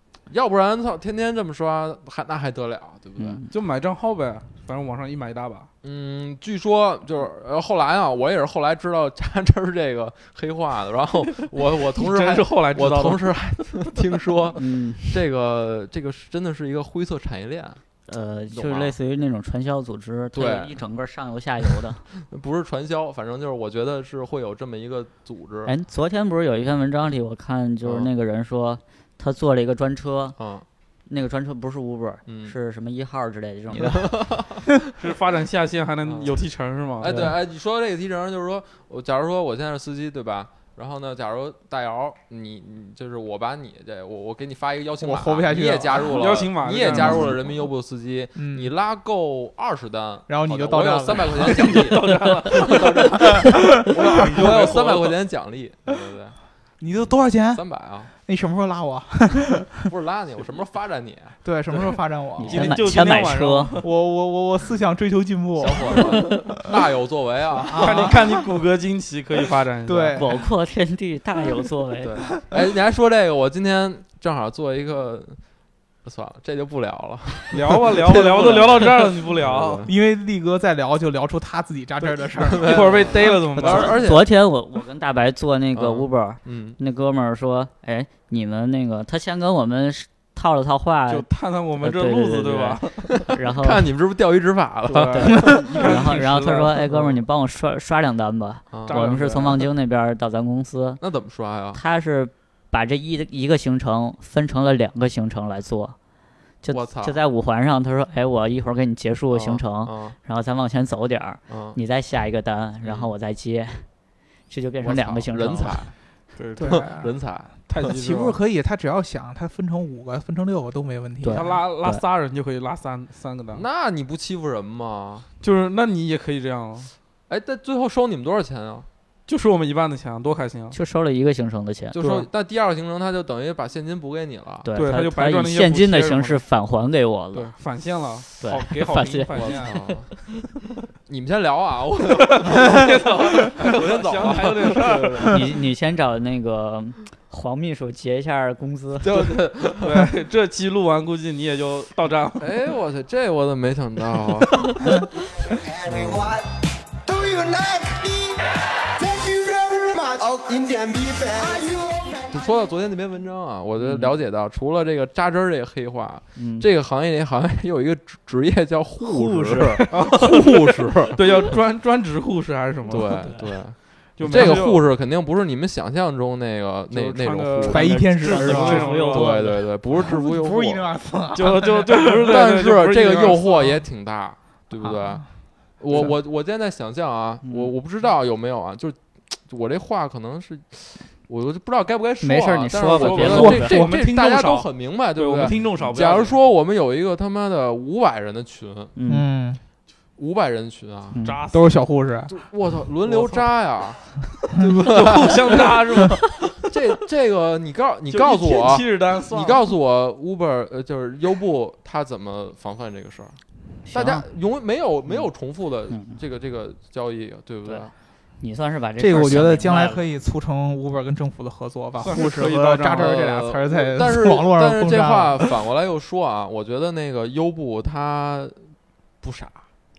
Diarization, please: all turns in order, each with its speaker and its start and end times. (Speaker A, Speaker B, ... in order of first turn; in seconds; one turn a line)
Speaker A: 0.3-3.4
Speaker B: 3.2-3.5
Speaker C: 3.5-5.7
Speaker A: 5.8-17.8
Speaker C: 11.9-13.3
Speaker B: 14.5-15.2
Speaker B: 18.1-22.0
Speaker A: 18.5-18.9
Speaker A: 20.3-20.8
Speaker A: 21.7-25.7
Speaker B: 25.6-30.4
Speaker A: 27.8-28.1
Speaker A: 30.4-30.6
Speaker B: 31.1-34.1
Speaker A: 32.2-32.5
Speaker A: 33.7-34.8
Speaker C: 35.0-37.3
Speaker A: 36.0-36.4
Speaker A: 37.0-56.4
Speaker D: 45.0-46.2
Speaker C: 46.0-47.4
Speaker D: 46.9-47.3
Speaker D: 48.3-48.7
Speaker D: 50.3-51.9
Speaker C: 51.4-53.0
Speaker D: 53.2-54.2
Speaker C: 53.6-55.1
Speaker D: 56.8-57.6
Speaker A: 57.0-58.1
Speaker D: 58.2-59.9
Speaker A: 59.9-61.5
Speaker D: 61.4-62.8
Speaker B: 62.4-63.8
Speaker C: 62.4-63.9
Speaker D: 63.8-66.8
Speaker A: 65.6-68.1
Speaker C: 66.1-66.4
Speaker D: 67.5-68.4
Speaker C: 67.7-70.3
Speaker D: 69.8-70.5
Speaker B: 70.2-72.3
Speaker A: 72.0-75.4
Speaker A: 76.0-79.9
Speaker C: 77.5-79.8
Speaker D: 79.8-83.0
Speaker A: 82.4-84.2
Speaker C: 82.7-84.0
Speaker B: 83.5-91.3
Speaker A: 85.7-86.8
Speaker C: 91.1-93.1
Speaker B: 91.8-93.9
Speaker A: 93.2-95.6
Speaker C: 94.8-97.2
Speaker B: 95.1-101.0
Speaker D: 95.4-95.7
Speaker A: 98.7-99.0
Speaker C: 98.8-99.7
Speaker A: 101.0-101.8
Speaker B: 101.7-106.0
Speaker B: 106.6-113.9
Speaker A: 106.7-107.2
Speaker A: 109.3-110.2
Speaker A: 111.5-111.8
Speaker A: 112.8-113.1
Speaker B: 114.5-115.9
Speaker A: 114.8-115.9
Speaker C: 116.3-116.9
Speaker D: 116.6-117.1
Speaker A: 116.7-117.5
Speaker C: 117.7-118.4
Speaker D: 117.8-121.5
Speaker B: 121.2-122.0
Speaker C: 121.3-123.6
Speaker A: 123.5-125.3
Speaker C: 125.4-126.9
Speaker A: 127.3-128.9
Speaker C: 129.3-130.8
Speaker B: 130.7-132.0
Speaker A: 131.9-134.7
Speaker C: 131.9-132.3
Speaker B: 134.6-137.5
Speaker C: 134.7-136.4
Speaker C: 137.3-139.7
Speaker B: 138.4-140.2
Speaker A: 139.3-140.1
Speaker A: 141.1-144.9
Speaker C: 142.2-145.3
Speaker D: 145.0-145.3
Speaker B: 145.2-149.1
Speaker A: 149.0-150.1
Speaker C: 149.8-152.5
Speaker A: 152.4-154.6
Speaker E: 155.5-156.4
Speaker E: 157.0-158.4
Speaker E: 158.9-162.3
Speaker A: 162.3-171.2
Speaker B: 163.8-164.1
Speaker B: 166.3-166.7
Speaker B: 169.4-169.8
Speaker C: 169.9-173.3
Speaker A: 172.8-177.9
Speaker C: 174.2-174.8
Speaker D: 174.2-174.6
Speaker C: 176.9-179.6
Speaker D: 177.6-178.9
Speaker B: 178.2-179.6
Speaker A: 178.5-180.8
Speaker D: 179.9-182.4
Speaker C: 181.3-183.6
Speaker A: 182.2-185.2
Speaker D: 183.4-183.8
Speaker A: 185.8-198.9
Speaker B: 187.4-187.7
Speaker B: 192.2-193.9
Speaker C: 192.9-196.4
Speaker B: 198.9-199.3
Speaker D: 199.1-199.6
Speaker A: 200.2-201.2
Speaker B: 201.1-201.4
Speaker C: 201.2-201.9
Speaker D: 201.5-202.3
Speaker A: 202.3-206.1
Speaker C: 203.0-203.4
Speaker C: 204.4-206.7
Speaker A: 206.7-217.9
Speaker C: 208.1-209.6
Speaker B: 213.8-214.3
Speaker B: 215.9-216.2
Speaker B: 217.6-220.0
Speaker D: 219.0-225.6
Speaker C: 222.0-223.1
Speaker A: 222.9-229.7